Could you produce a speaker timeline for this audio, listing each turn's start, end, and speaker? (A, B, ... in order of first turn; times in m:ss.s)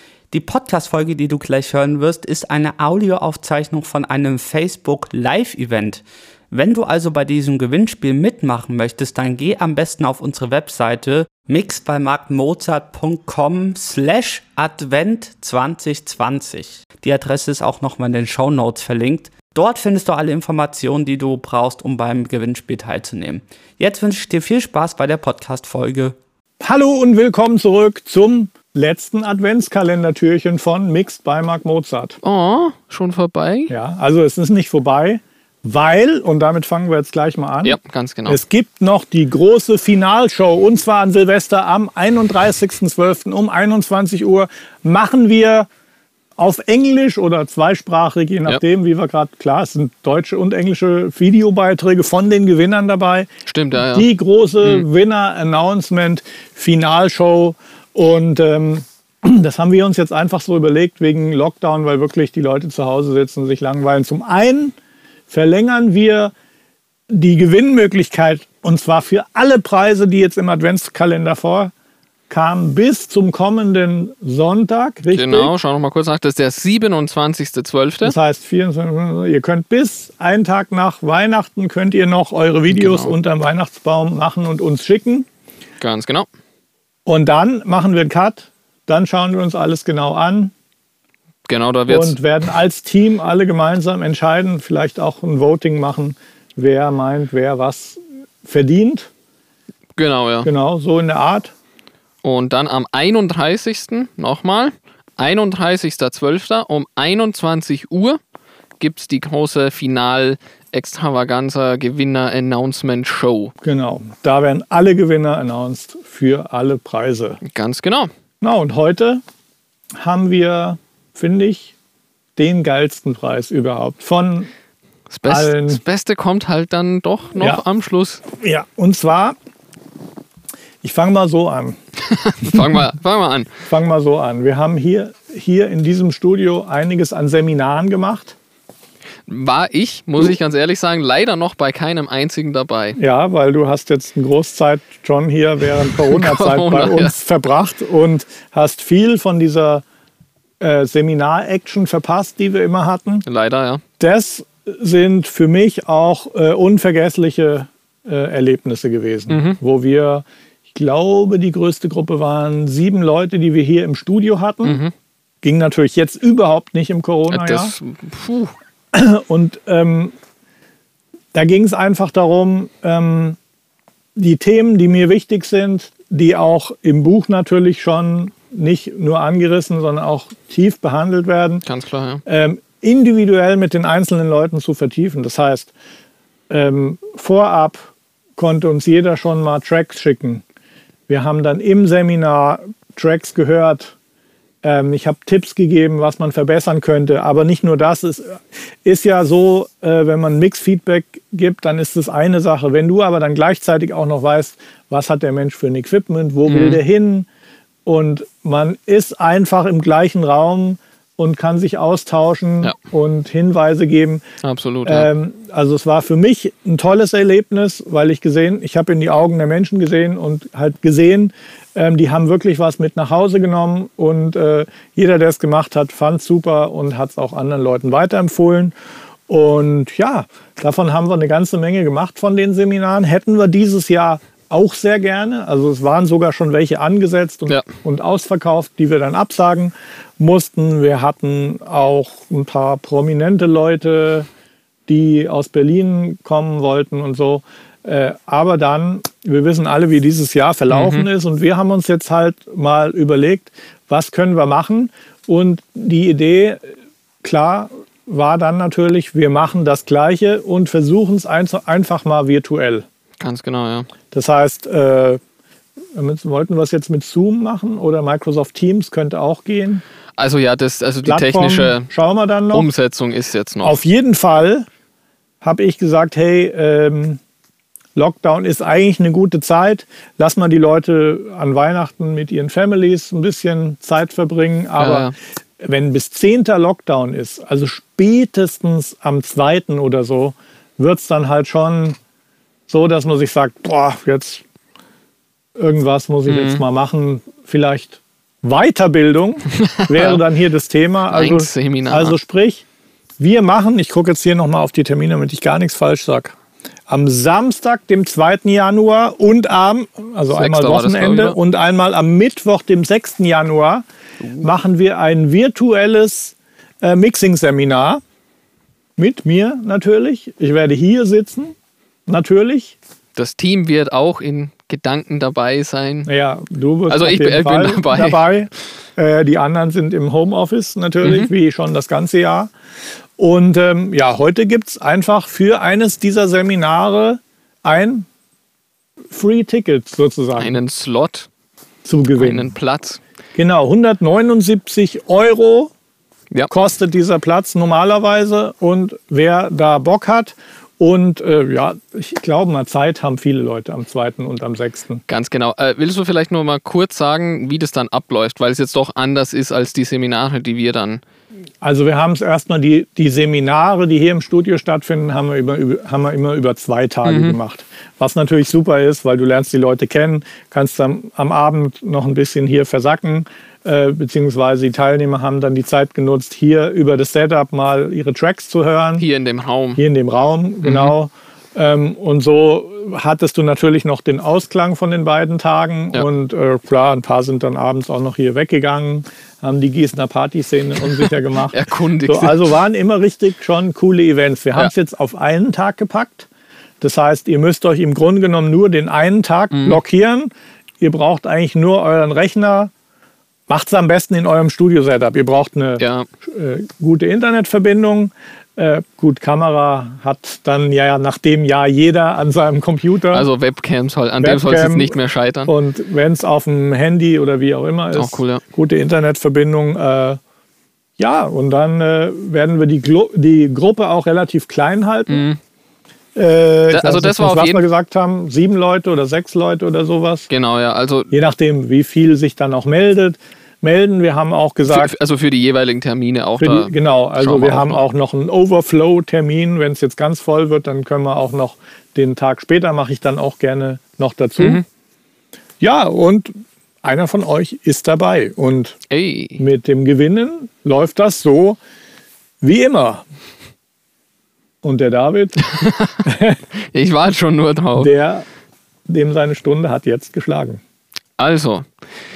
0:00.3-0:26.2 A
0:26.6-0:32.2 B
0:32.2-0:33.7 C
0:33.7-0:45.7 B
0:37.6-0:38.4 C
0:46.4-1:04.8 B
0:53.5-0:54.1 C
1:05.3-1:06.3 B
1:07.1-1:11.7 B
1:12.3-1:15.5 B
1:15.1-1:18.2 C
1:18.0-1:25.3 B
1:22.7-1:23.2 C
1:25.8-1:26.3 C
1:27.1-1:30.5 B
1:31.5-1:32.2 C
1:31.9-1:39.1 B
1:40.0-1:40.5 C
1:40.4-1:41.5 B
1:42.2-1:48.2 C
1:48.8-1:53.5 C
1:53.6-1:57.4 B
1:57.4-1:58.1 C
1:58.4-1:59.2 B
2:00.0-2:01.7 B
2:02.4-2:04.5 B
2:05.1-2:08.2 C
2:05.3-2:05.8 B
2:07.4-2:07.6 B
2:08.3-2:09.4 B
2:10.8-2:11.8 B
2:12.1-2:13.5 C
2:13.7-2:18.4 B
2:19.3-2:23.0 C
2:23.0-2:29.8 B
2:26.0-2:27.2 C
2:30.6-2:33.2 B
2:33.3-2:33.8 C
2:34.0-2:44.8 B
2:39.3-2:39.6 C
2:44.6-2:44.9 C
2:45.4-2:47.7 B
2:47.3-2:48.5 C
2:48.9-2:50.2 B
2:51.3-2:53.4 B
2:54.2-3:01.6 B
3:01.6-3:02.2 C
3:02.3-3:05.7 B
3:06.5-3:10.4 B
3:11.1-3:14.0 B
3:14.6-3:27.3 B
3:26.5-3:26.8 C
3:27.8-3:34.2 B
3:34.4-3:35.1 C
3:34.8-3:48.8 B
3:49.3-4:04.3 B
4:04.9-4:16.6 B
4:10.7-4:11.1 C
4:17.2-4:22.9 B
4:23.2-4:23.9 C
4:24.1-4:25.2 B
4:26.0-4:29.8 B
4:30.2-4:31.9 C
4:31.0-4:32.7 B
4:32.5-4:33.8 C
4:33.6-4:34.7 B
4:35.4-4:37.2 B
4:38.0-4:52.0 B
4:44.8-4:45.1 C
4:52.7-4:54.4 B
4:55.6-5:02.7 B
4:56.3-4:56.6 C
4:59.8-5:00.2 C
5:01.1-5:02.2 C
5:03.2-5:06.4 B
5:06.9-5:13.8 B
5:10.4-5:11.4 C
5:14.2-5:14.5 C
5:14.4-5:18.0 B
5:19.0-5:21.6 B
5:22.1-5:22.8 B
5:23.2-5:26.1 C
5:26.1-5:32.5 B
5:26.9-5:28.3 C
5:31.0-5:31.3 C
5:33.2-5:38.1 B
5:39.1-5:40.6 B
5:40.4-5:41.3 C
5:41.8-5:42.5 B
5:42.2-5:43.0 C
5:43.4-5:45.7 B
5:46.5-5:55.0 B
5:55.1-6:01.0 C
6:01.6-6:19.1 B
6:07.1-6:07.4 C
6:19.0-6:19.8 C
6:19.8-6:36.3 B
6:20.6-6:20.9 C
6:31.5-6:32.5 C
6:36.8-6:40.3 B
6:39.5-6:39.8 C
6:40.8-6:42.7 B
6:43.5-6:53.3 B
6:45.8-6:46.1 C
6:53.1-6:55.5 C
6:54.2-7:00.2 B
6:57.9-6:58.4 C
7:01.0-7:05.2 B
7:05.1-7:05.4 C
7:06.2-7:10.3 B
7:06.7-7:07.6 C
7:10.3-7:11.1 C
7:11.1-7:14.9 B
7:14.7-7:17.8 C
7:16.4-7:24.6 B
7:25.6-7:26.3 B
7:26.8-7:28.8 B
7:28.9-7:29.4 C
7:29.4-7:31.6 B
7:32.4-7:33.0 B
7:34.6-7:35.5 B
7:35.6-7:36.0 C
7:36.0-7:36.4 B
7:36.7-7:37.9 C
7:37.8-7:38.3 B
7:38.9-7:40.6 B
7:41.2-7:41.7 C